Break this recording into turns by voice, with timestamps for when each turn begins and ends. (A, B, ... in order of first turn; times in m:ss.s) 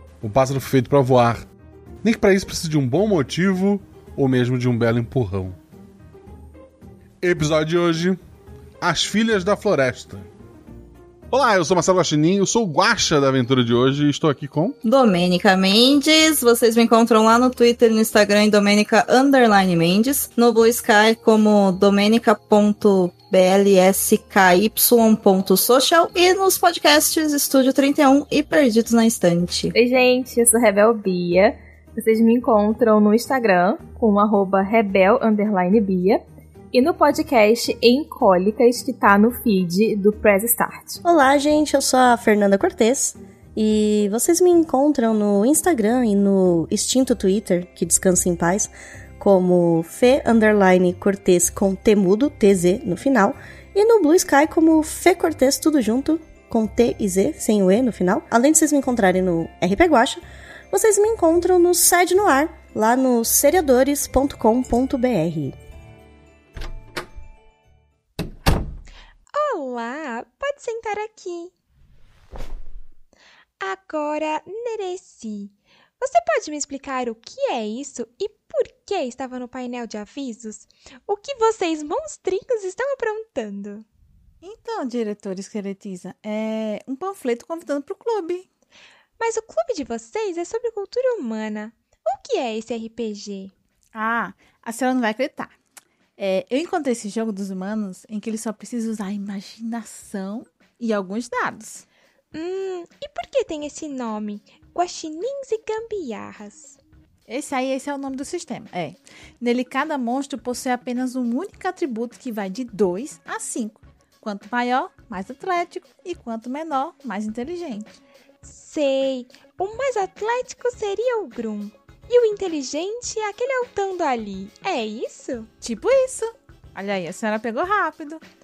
0:00.2-0:01.4 A
0:02.0-0:05.6 A
0:07.2-0:08.2 A
0:08.8-0:10.3 A
0:11.3-0:14.8 A
0:14.8-0:29.7 B
0:29.7-0:41.0 C
0:41.0-1:05.6 D
1:09.3-1:11.5 E
1:13.6-1:23.8 E
1:24.4-1:28.5 F
1:29.2-1:33.5 E
1:34.0-1:35.5 F
1:36.2-1:41.8 F
1:42.3-1:46.8 E
1:47.3-1:57.9 F
1:58.4-2:05.5 E
2:05.6-2:08.2 F